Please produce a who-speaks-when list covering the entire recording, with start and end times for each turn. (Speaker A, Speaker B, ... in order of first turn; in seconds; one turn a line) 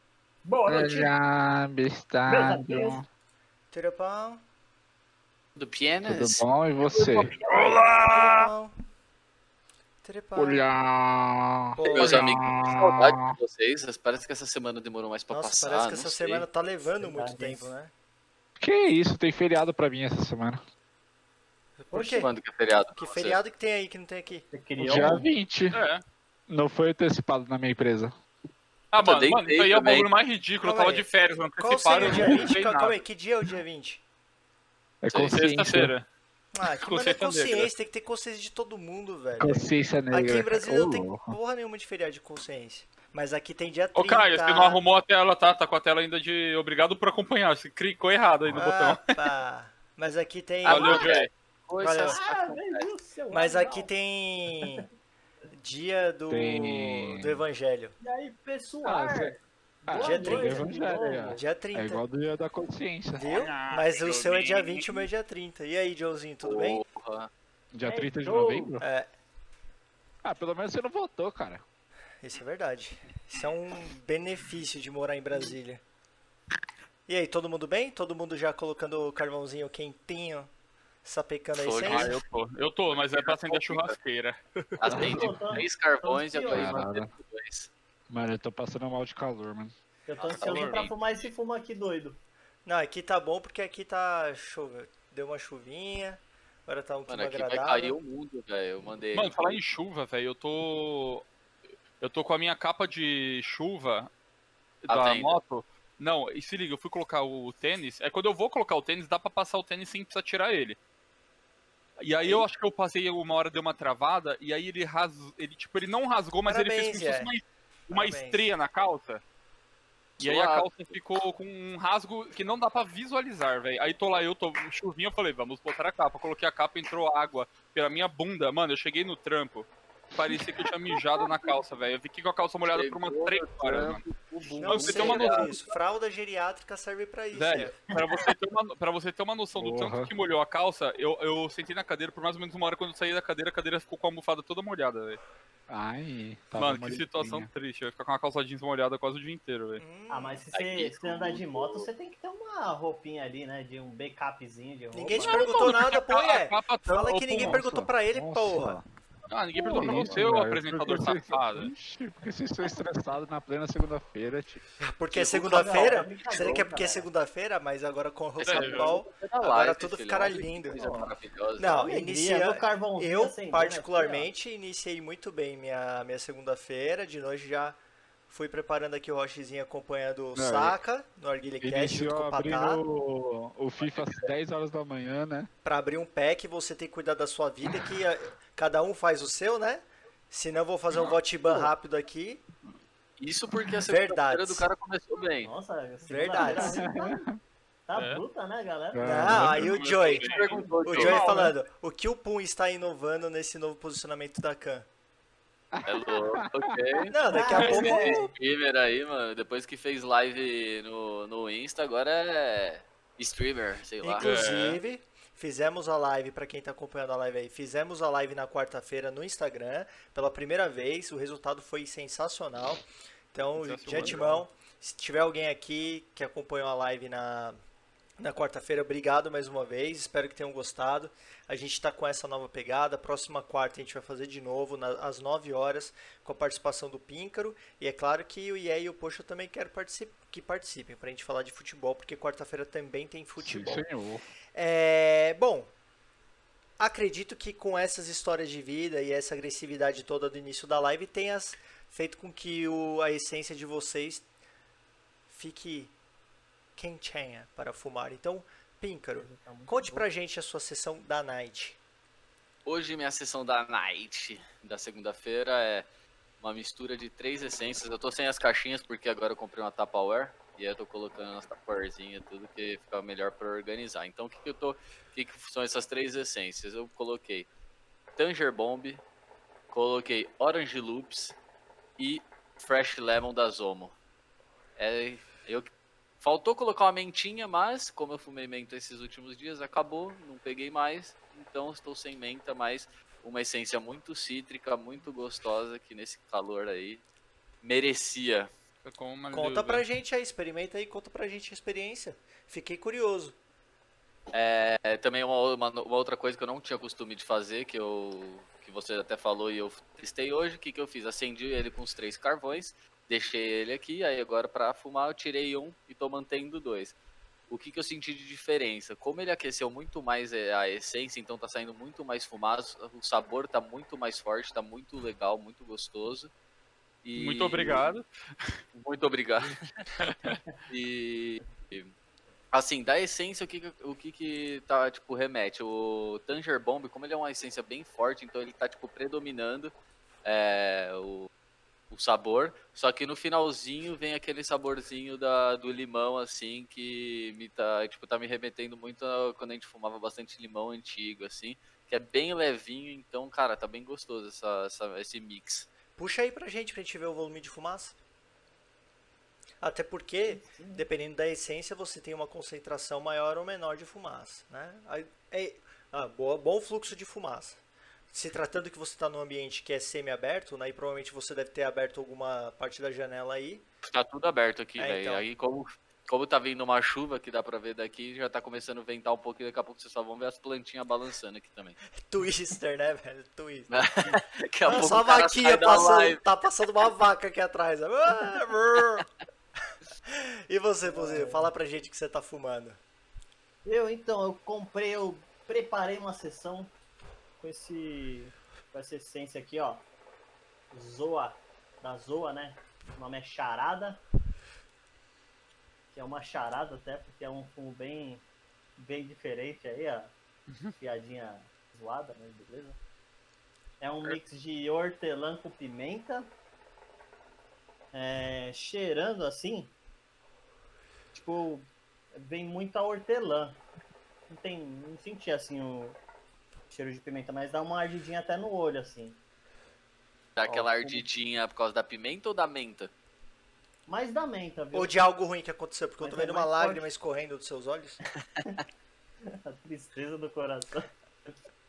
Speaker A: 0.4-1.1
Speaker B: 0.7-3.0
Speaker A: 2.3-3.0
Speaker C: 3.7-4.4
Speaker D: 5.5-8.5
Speaker B: 6.0-7.3
Speaker C: 8.0-8.7
Speaker C: 10.0-10.7
Speaker B: 10.3-13.3
Speaker C: 11.8-12.3
Speaker D: 11.8-16.4
Speaker C: 15.3-17.9
Speaker A: 17.0-17.7
Speaker B: 18.6-20.6
Speaker C: 21.8-22.3
Speaker D: 21.9-23.4
Speaker C: 22.9-24.5
Speaker A: 24.5-25.2
Speaker B: 24.8-25.8
Speaker E: 25.7-26.0
Speaker B: 26.5-28.1
Speaker E: 28.9-33.0
Speaker D: 29.0-30.1
Speaker C: 30.6-31.1
Speaker C: 31.6-34.0
Speaker A: 32.1-32.5
Speaker B: 35.0-35.9
Speaker D: 35.1-35.6
Speaker E: 35.3-36.0
Speaker C: 36.5-44.8
Speaker E: 36.7-37.7
Speaker B: 39.4-41.4
Speaker E: 43.9-49.3
Speaker C: 48.5-51.2
Speaker D: 50.6-52.9
Speaker E: 50.7-51.3
Speaker C: 51.8-52.2
Speaker A: 51.8-53.9
Speaker C: 53.3-54.9
Speaker A: 54.6-54.8
Speaker C: 55.5-57.9
Speaker B: 56.3-57.4
Speaker A: 58.0-61.4
Speaker B: 58.8-63.3
Speaker C: 59.9-62.0
Speaker C: 63.1-66.8
Speaker E: 63.3-65.1
Speaker D: 66.4-67.3
Speaker B: 67.7-68.8
Speaker A: 67.8-68.8
Speaker C: 68.8-69.1
Speaker B: 70.2-71.6
Speaker C: 72.2-75.8
Speaker C: 77.1-80.5
Speaker C: 81.0-82.1
Speaker D: 81.5-82.2
Speaker E: 81.8-84.4
Speaker D: 82.9-84.0
Speaker D: 84.8-87.7
Speaker B: 84.9-85.6
Speaker A: 85.0-86.8
Speaker B: 86.5-87.1
Speaker B: 88.1-89.7
Speaker A: 90.1-92.2
Speaker D: 90.2-90.9
Speaker E: 90.4-90.7
Speaker C: 92.6-98.0
Speaker D: 97.1-99.6
Speaker E: 99.1-101.3
Speaker E: 102.0-104.1
Speaker E: 104.8-110.8
Speaker D: 104.9-105.4
Speaker E: 112.0-119.2
Speaker C: 116.5-117.3
Speaker C: 117.9-118.5
Speaker D: 120.2-120.9
Speaker E: 120.2-134.0
Speaker D: 132.6-135.5
Speaker E: 134.6-135.6
Speaker C: 134.6-137.8
Speaker E: 137.3-145.2
Speaker B: 139.6-140.1
Speaker B: 145.7-147.5
Speaker E: 146.6-149.8
Speaker C: 149.8-150.4
Speaker A: 150.1-155.5
Speaker D: 150.5-151.9
Speaker C: 154.9-158.8
Speaker E: 155.2-157.6
Speaker B: 157.4-158.8
Speaker E: 159.3-161.7
Speaker B: 159.6-164.6
Speaker C: 164.8-170.9
Speaker A: 165.1-167.1
Speaker D: 165.1-166.5
Speaker E: 168.4-168.9
Speaker D: 168.4-171.9
Speaker A: 170.8-171.2
Speaker C: 171.6-182.8
Speaker A: 171.8-174.3
Speaker B: 180.3-180.8
Speaker B: 181.6-185.5
Speaker D: 183.8-184.3
Speaker C: 185.6-192.4
Speaker D: 193.2-195.5
Speaker C: 193.9-194.7
Speaker A: 195.4-197.2
Speaker C: 196.1-196.8
Speaker B: 196.3-197.4
Speaker A: 197.9-199.5
Speaker E: 197.9-198.2
Speaker B: 198.9-199.7
Speaker C: 199.0-204.9
Speaker E: 199.4-201.4
Speaker D: 199.9-201.5
Speaker B: 205.7-206.9
Speaker D: 205.8-214.3
Speaker C: 207.1-208.3
Speaker A: 207.3-208.2
Speaker C: 214.0-227.6
Speaker E: 214.2-214.8
Speaker E: 223.6-224.4
Speaker A: 224.0-224.4
Speaker C: 228.2-243.8
Speaker B: 243.4-244.2
Speaker C: 244.5-245.7
Speaker C: 246.8-254.3
Speaker C: 255.3-255.9
Speaker C: 256.8-261.8
Speaker A: 259.1-260.1
Speaker D: 262.6-265.9
Speaker D: 266.4-277.5
Speaker D: 278.1-279.0
Speaker D: 279.7-281.4
Speaker D: 282.0-283.9
Speaker D: 284.8-297.0
Speaker D: 297.6-298.5
Speaker E: 298.8-299.8
Speaker C: 299.3-303.4
Speaker D: 304.3-317.0
Speaker D: 317.5-326.3
Speaker D: 327.0-327.9
Speaker E: 327.1-328.5
Speaker D: 328.7-329.8
Speaker E: 330.0-330.4
Speaker D: 330.7-331.9
Speaker D: 332.5-339.7
Speaker D: 340.2-341.3
Speaker D: 341.9-355.7
Speaker C: 355.9-357.9
Speaker C: 359.6-373.6
Speaker A: 360.2-360.8
Speaker D: 373.8-381.8
Speaker C: 374.8-375.2
Speaker C: 382.0-389.1
Speaker D: 383.7-386.2
Speaker C: 390.1-392.8
Speaker A: 390.8-391.5
Speaker A: 393.6-396.7
Speaker A: 397.4-399.9
Speaker A: 400.7-404.0
Speaker A: 405.9-408.2
Speaker A: 408.8-410.1
Speaker A: 410.8-412.8
Speaker A: 413.8-416.3
Speaker A: 417.9-419.7
Speaker A: 421.1-423.6
Speaker A: 424.3-426.0
Speaker A: 426.7-429.2
Speaker D: 430.4-432.9
Speaker A: 430.4-431.1
Speaker A: 433.9-435.1
Speaker C: 434.7-438.0
Speaker A: 436.0-436.9
Speaker A: 439.2-441.3